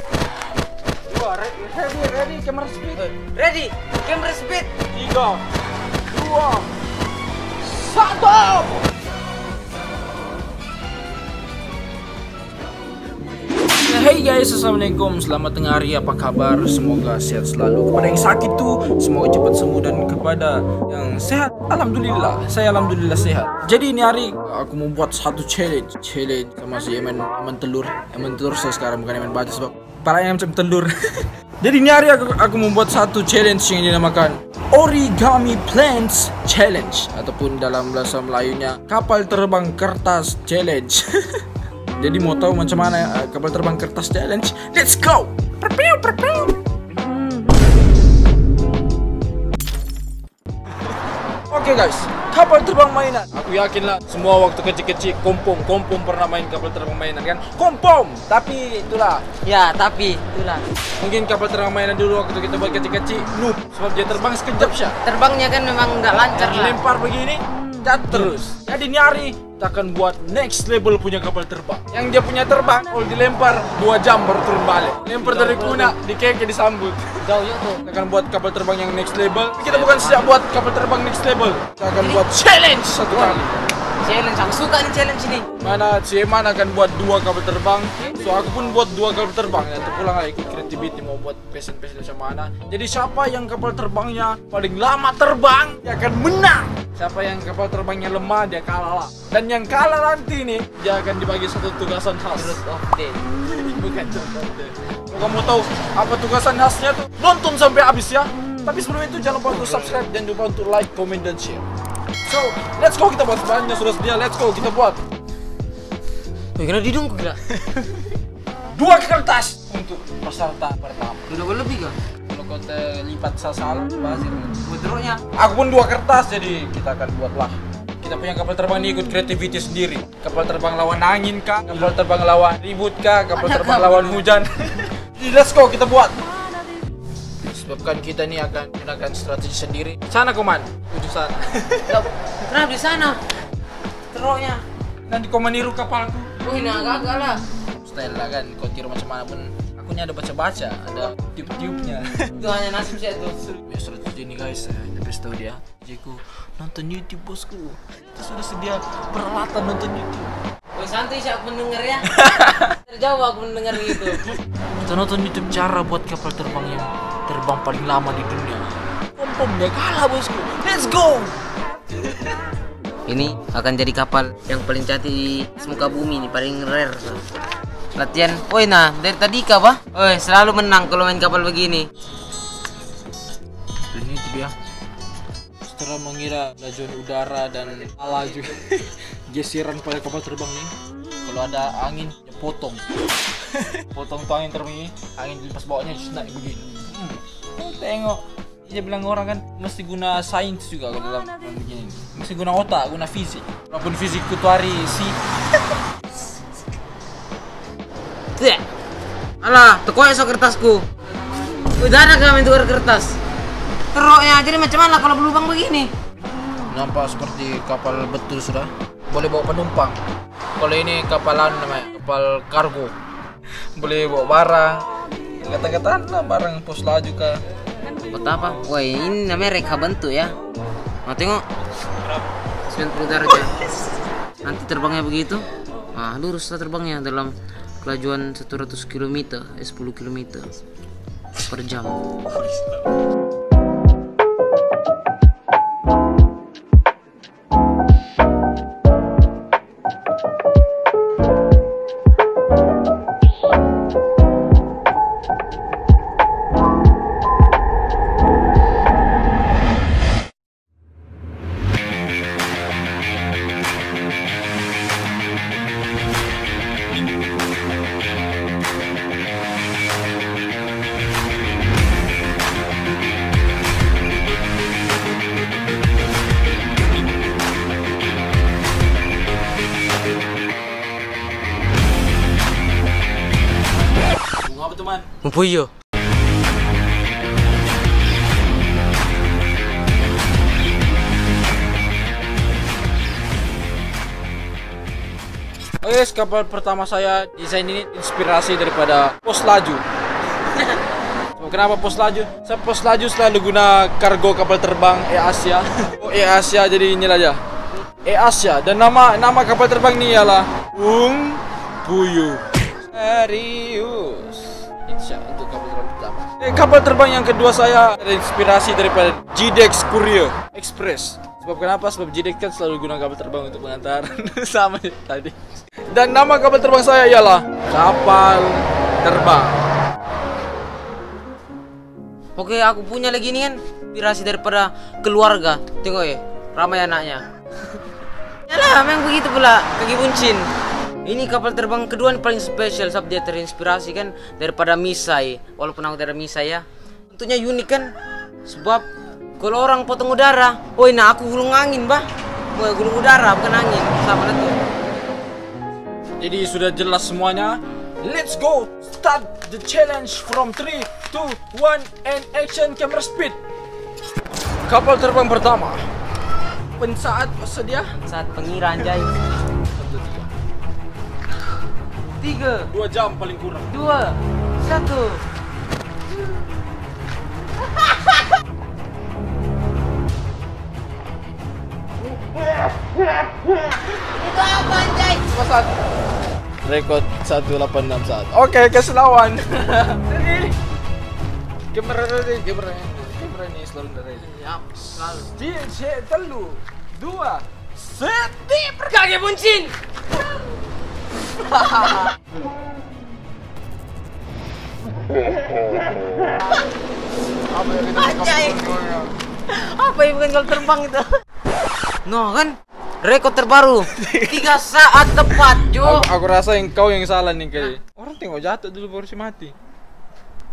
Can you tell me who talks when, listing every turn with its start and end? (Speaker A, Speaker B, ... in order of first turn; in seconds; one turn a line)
Speaker A: 1.1-3.1
Speaker B: 3.0-4.7
Speaker A: 4.9-5.4
Speaker A: 6.1-6.7
Speaker A: 7.6-8.8
Speaker A: 13.8-30.9
Speaker A: 31.6-41.4
Speaker A: 42.0-46.6
Speaker A: 51.5-59.2
Speaker B: 59.4-60.6
Speaker A: 61.0-65.0
Speaker B: 64.6-66.8
Speaker A: 66.3-77.2
Speaker B: 75.2-76.0
Speaker B: 77.2-77.8
Speaker A: 77.8-83.6
Speaker B: 79.6-80.4
Speaker B: 82.0-82.2
Speaker B: 82.9-85.5
Speaker A: 85.6-102.6
Speaker B: 102.3-103.2
Speaker A: 103.3-111.6
Speaker B: 109.5-110.0
Speaker A: 112.2-115.0
Speaker B: 116.6-117.4
Speaker A: 117.5-118.1
Speaker A: 118.7-121.3
Speaker B: 121.3-122.0
Speaker A: 122.3-124.6
Speaker B: 124.6-125.2
Speaker A: 125.3-136.2
Speaker B: 133.3-134.4
Speaker A: 137.4-142.0
Speaker B: 141.9-143.2
Speaker B: 144.1-144.6
Speaker A: 145.1-146.3
Speaker B: 146.4-147.4
Speaker A: 147.8-152.4
Speaker B: 152.2-153.6
Speaker A: 153.7-160.3
Speaker B: 160.7-164.3
Speaker A: 162.0-162.7
Speaker A: 163.9-164.3
Speaker A: 164.8-171.4
Speaker B: 173.1-177.2
Speaker B: 177.9-181.9
Speaker A: 183.9-184.5
Speaker A: 185.6-190.7
Speaker A: 191.2-192.8
Speaker A: 193.5-205.2
Speaker B: 209.4-210.8
Speaker B: 211.8-213.2
Speaker B: 213.9-215.9
Speaker A: 216.7-219.9
Speaker A: 220.6-222.9
Speaker A: 223.8-224.8
Speaker A: 225.4-227.4
Speaker B: 228.1-230.3
Speaker B: 231.1-231.4
Speaker B: 232.7-233.5
Speaker B: 234.4-240.5
Speaker B: 241.5-242.0
Speaker A: 284.3-285.1
Speaker B: 285.2-285.7
Speaker A: 295.8-299.8
Speaker A: 301.4-307.4
Speaker A: 308.0-325.3
Speaker A: 325.9-329.6
Speaker B: 332.4-337.2
Speaker B: 338.5-340.5
Speaker B: 341.0-347.9
Speaker B: 348.4-348.8
Speaker B: 349.4-354.6
Speaker A: 356.2-363.4
Speaker A: 364.7-365.8
Speaker A: 366.8-367.9
Speaker B: 368.0-369.1
Speaker A: 369.7-370.3
Speaker B: 372.2-372.7
Speaker A: 372.7-373.7
Speaker B: 373.7-375.2
Speaker B: 377.6-378.2
Speaker B: 384.0-385.2
Speaker A: 385.2-385.7
Speaker A: 386.6-390.5
Speaker A: 391.7-398.9
Speaker B: 394.2-395.3
Speaker B: 398.8-399.7
Speaker B: 401.4-402.1
Speaker A: 407.5-409.1
Speaker B: 407.9-408.8
Speaker B: 409.5-411.1
Speaker B: 412.0-416.1
Speaker A: 413.9-414.6
Speaker A: 415.8-419.5